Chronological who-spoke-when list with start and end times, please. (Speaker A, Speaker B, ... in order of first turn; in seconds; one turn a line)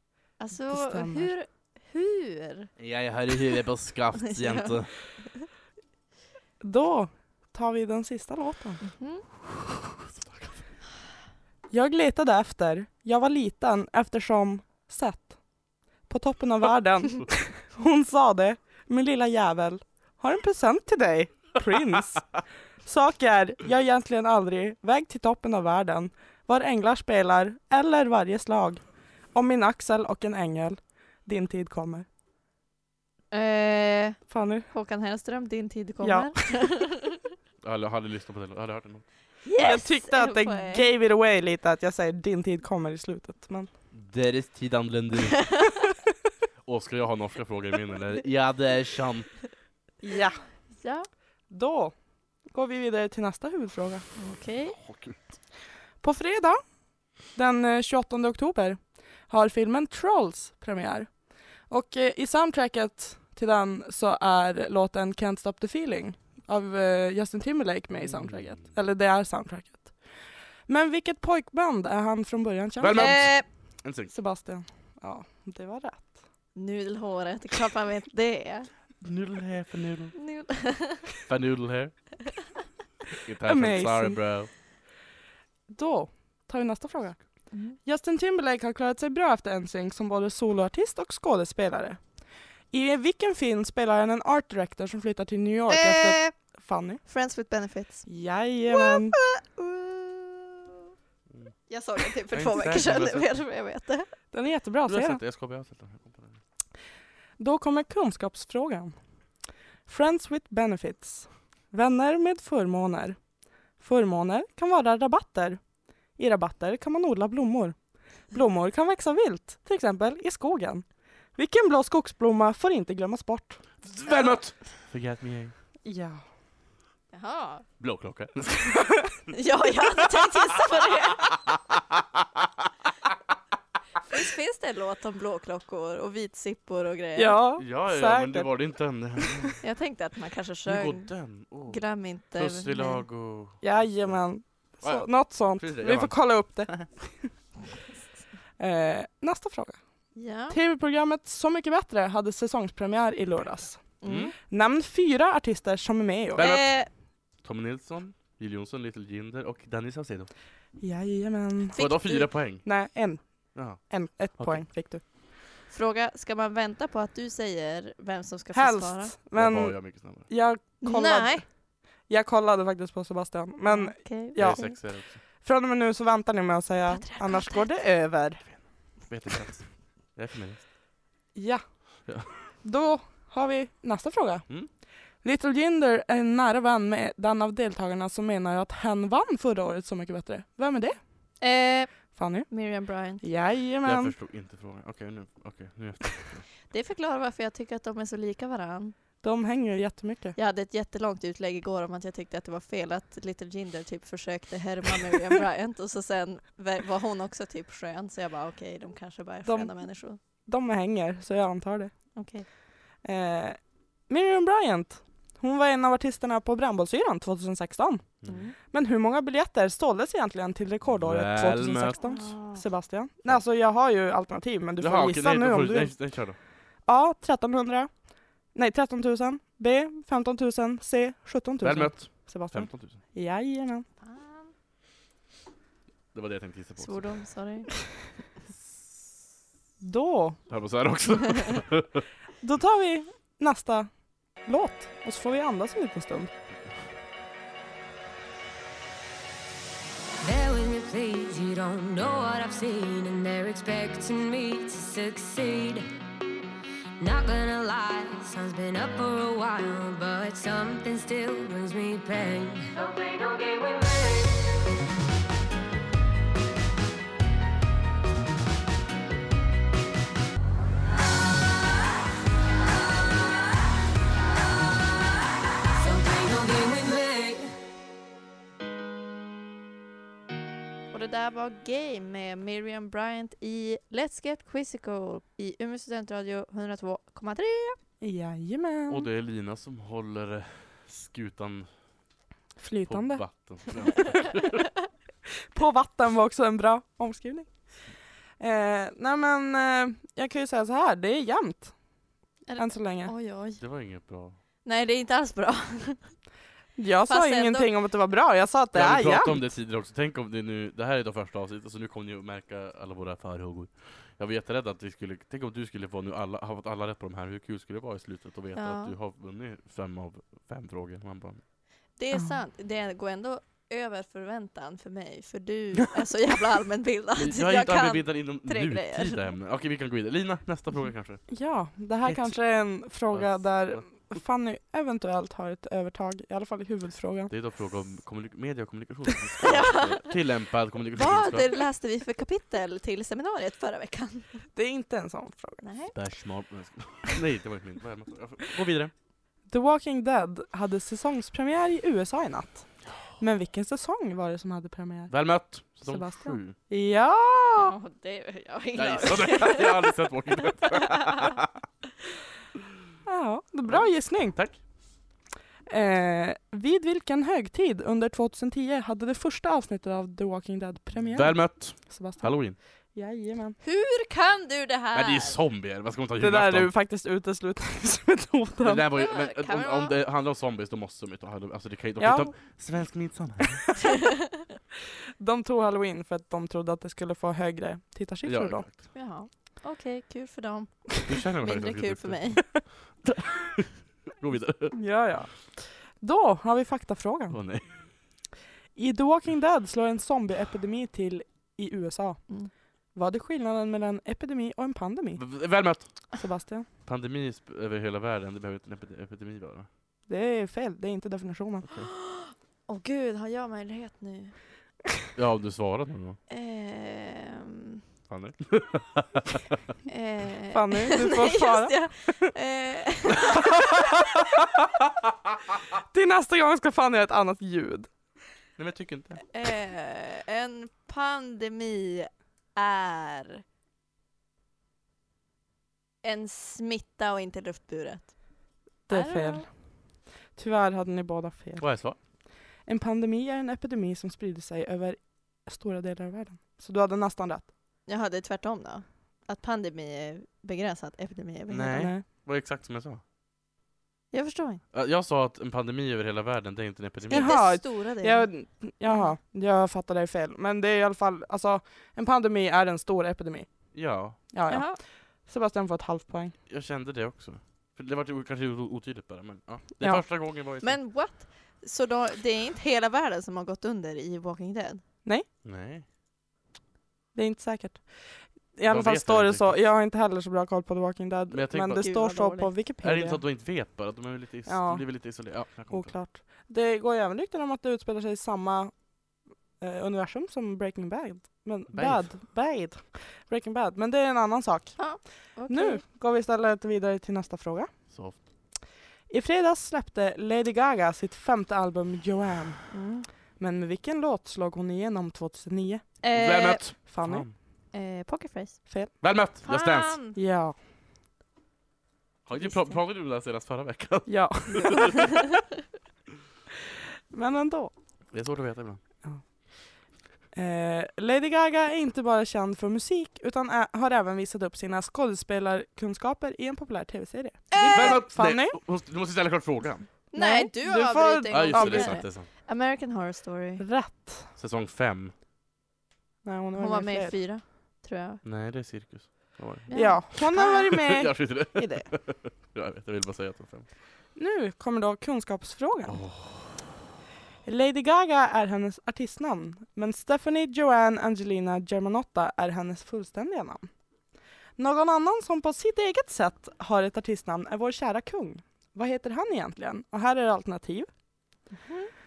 Speaker A: 0.4-2.7
Speaker B: 0.7-1.3
Speaker C: 2.8-4.9
Speaker A: 4.3-4.8
Speaker B: 6.6-8.8
Speaker A: 8.8-9.2
Speaker C: 10.1-10.6
Speaker B: 11.7-15.4
Speaker B: 16.1-22.3
Speaker B: 22.8-32.1
Speaker A: 33.3-34.2
Speaker B: 34.3-34.7
Speaker A: 34.7-37.2
Speaker B: 36.0-36.3
Speaker C: 37.6-39.1
Speaker A: 39.5-40.9
Speaker B: 39.6-43.7
Speaker C: 43.9-45.6
Speaker C: 46.6-49.4
Speaker B: 50.0-50.4
Speaker A: 50.8-51.1
Speaker B: 51.5-51.9
Speaker B: 52.5-54.0
Speaker A: 54.2-54.8
Speaker C: 54.8-55.2
Speaker B: 56.0-56.6
Speaker B: 57.3-61.1
Speaker B: 61.7-70.0
Speaker C: 68.0-68.7
Speaker B: 70.7-73.2
Speaker C: 72.8-74.1
Speaker A: 73.0-73.5
Speaker B: 74.1-76.1
Speaker A: 76.5-78.7
Speaker C: 79.0-80.2
Speaker A: 80.2-81.1
Speaker C: 81.3-82.2
Speaker C: 83.2-84.5
Speaker B: 83.5-84.2
Speaker B: 85.7-87.2
Speaker A: 87.5-87.8
Speaker B: 87.8-92.0
Speaker B: 92.7-97.0
Speaker A: 95.7-96.3
Speaker A: 97.0-98.1
Speaker B: 98.1-99.2
Speaker A: 98.7-100.8
Speaker A: 101.7-104.1
Speaker C: 102.3-103.3
Speaker B: 104.3-105.2
Speaker C: 104.9-106.4
Speaker B: 107.4-109.0
Speaker B: 109.9-113.2
Speaker B: 113.8-115.6
Speaker B: 116.2-117.8
Speaker B: 118.3-123.6
Speaker C: 123.8-125.5
Speaker B: 125.8-126.2
Speaker A: 127.1-127.7
Speaker C: 127.8-129.1
Speaker A: 129.3-131.3
Speaker A: 134.1-137.4
Speaker B: 137.2-138.5
Speaker C: 137.6-139.6
Speaker A: 139.6-141.1
Speaker C: 140.7-141.8
Speaker A: 141.7-143.0
Speaker C: 142.3-144.2
Speaker B: 143.6-147.3
Speaker C: 144.8-146.1
Speaker B: 148.6-149.8
Speaker A: 150.2-150.6
Speaker B: 150.5-153.8
Speaker A: 154.0-154.3
Speaker C: 154.0-154.3
Speaker B: 154.4-156.5
Speaker A: 156.4-156.9
Speaker C: 156.4-156.7
Speaker C: 157.4-160.3
Speaker B: 160.8-161.8
Speaker A: 161.7-162.3
Speaker C: 161.8-162.7
Speaker B: 162.7-165.0
Speaker C: 163.6-163.8
Speaker C: 164.4-164.6
Speaker A: 165.7-169.1
Speaker B: 168.5-171.4
Speaker C: 169.3-170.3
Speaker A: 170.8-171.4
Speaker B: 172.1-174.8
Speaker A: 173.7-174.8
Speaker C: 174.4-175.2
Speaker B: 175.4-178.4
Speaker A: 176.9-177.8
Speaker C: 179.1-180.6
Speaker B: 181.3-181.6
Speaker B: 182.6-184.4
Speaker B: 185.2-191.0
Speaker A: 191.4-191.9
Speaker B: 192.2-192.5
Speaker A: 192.5-193.2
Speaker B: 193.2-194.1
Speaker C: 193.8-196.5
Speaker A: 196.7-198.9
Speaker B: 199.2-200.4
Speaker A: 200.4-210.2
Speaker B: 209.4-209.7
Speaker B: 210.5-211.9
Speaker A: 212.2-212.5
Speaker B: 213.0-218.1
Speaker A: 218.2-218.6
Speaker B: 218.7-225.9
Speaker C: 220.9-222.0
Speaker A: 222.0-222.6
Speaker C: 224.8-226.4
Speaker B: 226.9-227.9
Speaker B: 228.5-233.9
Speaker C: 231.6-233.0
Speaker A: 234.0-234.5
Speaker C: 236.1-237.2
Speaker A: 236.8-237.7
Speaker B: 239.8-240.4
Speaker C: 240.5-242.1
Speaker B: 242.4-243.9
Speaker B: 244.4-246.3
Speaker D: 250.2-255.9
Speaker D: 257.0-264.4
Speaker D: 275.8-277.5
Speaker A: 280.9-287.8
Speaker B: 288.0-289.1
Speaker C: 288.9-291.7
Speaker B: 292.6-293.2
Speaker C: 292.9-294.7
Speaker B: 295.5-297.5
Speaker B: 298.4-301.8
Speaker A: 302.5-303.6
Speaker B: 302.6-303.1
Speaker C: 303.6-304.4
Speaker A: 304.6-306.2
Speaker B: 306.8-309.5
Speaker A: 307.1-307.7
Speaker C: 308.7-321.4
Speaker A: 318.6-318.9
Speaker A: 322.0-329.3
Speaker C: 327.2-331.2
Speaker B: 331.3-337.3
Speaker C: 332.1-332.3
Speaker C: 333.1-334.0
Speaker C: 337.3-341.5
Speaker A: 339.4-340.2
Speaker A: 340.9-344.5
Speaker B: 344.6-345.6
Speaker A: 345.6-345.9
Speaker C: 345.9-348.9
Speaker B: 349.5-355.1
Speaker C: 355.1-356.6
Speaker B: 355.9-357.7
Speaker A: 357.6-359.9
Speaker C: 358.8-361.5
Speaker A: 360.6-361.3
Speaker B: 363.1-364.4
Speaker C: 363.7-364.6
Speaker B: 365.7-372.4
Speaker C: 371.1-372.6
Speaker B: 372.9-373.6
Speaker A: 373.6-375.4
Speaker C: 374.9-376.7
Speaker B: 376.2-378.9
Speaker C: 378.6-383.7
Speaker A: 378.9-380.0
Speaker B: 382.0-382.3
Speaker B: 385.2-388.7
Speaker C: 388.2-388.9
Speaker A: 388.9-392.4
Speaker C: 391.1-394.8
Speaker B: 394.7-397.4
Speaker C: 397.3-397.8
Speaker B: 398.8-402.2
Speaker B: 402.9-405.2
Speaker C: 405.2-405.9
Speaker B: 406.2-406.7
Speaker C: 406.9-409.7
Speaker B: 410.1-411.7
Speaker A: 412.1-414.4
Speaker C: 415.2-416.2
Speaker A: 416.3-417.8
Speaker C: 418.1-419.4
Speaker A: 419.9-423.3
Speaker B: 420.5-422.3
Speaker B: 425.9-427.9
Speaker C: 428.6-429.2
Speaker A: 429.3-433.4
Speaker A: 436.0-438.1
Speaker A: 438.9-439.5
Speaker B: 438.9-439.5
Speaker B: 440.4-441.7
Speaker C: 441.6-442.0
Speaker B: 442.7-447.5
Speaker A: 447.9-451.9
Speaker C: 451.5-453.0
Speaker B: 451.7-452.0
Speaker A: 454.1-454.6
Speaker C: 454.7-457.4
Speaker A: 457.1-458.3
Speaker B: 457.1-463.5
Speaker A: 458.9-459.1
Speaker C: 463.7-464.2
Speaker B: 464.3-464.7
Speaker A: 464.5-464.8
Speaker B: 465.3-466.4
Speaker C: 466.5-470.8
Speaker A: 470.6-474.8
Speaker C: 475.4-475.9
Speaker B: 477.1-483.2
Speaker C: 478.7-479.6
Speaker C: 481.3-481.9
Speaker A: 481.8-482.5
Speaker C: 482.8-485.9
Speaker B: 484.5-484.9
Speaker B: 485.7-488.7
Speaker B: 489.6-494.8
Speaker C: 491.7-492.1
Speaker A: 494.8-495.8
Speaker B: 495.5-497.7
Speaker C: 497.9-498.2
Speaker B: 499.1-502.6
Speaker A: 502.7-503.1
Speaker B: 503.4-505.9
Speaker A: 506.0-506.7
Speaker C: 506.1-507.3
Speaker B: 506.9-507.3
Speaker A: 507.7-508.6
Speaker C: 509.0-510.0
Speaker A: 509.4-510.2
Speaker B: 510.2-510.6
Speaker C: 512.3-515.0
Speaker A: 512.4-512.8
Speaker B: 514.1-515.0
Speaker A: 514.5-515.3
Speaker B: 517.1-517.7
Speaker C: 518.1-518.8
Speaker B: 520.3-528.6
Speaker A: 527.5-528.0
Speaker C: 527.6-529.9
Speaker A: 530.1-533.6
Speaker B: 530.1-532.0
Speaker C: 531.3-532.3
Speaker B: 533.6-534.3
Speaker C: 534.4-535.1
Speaker B: 536.2-537.2
Speaker A: 536.6-538.2
Speaker C: 538.2-543.7
Speaker A: 539.7-540.6
Speaker B: 539.7-541.9
Speaker B: 544.2-546.0
Speaker C: 545.9-546.6
Speaker B: 547.5-553.7
Speaker B: 554.6-560.9
Speaker A: 561.6-561.9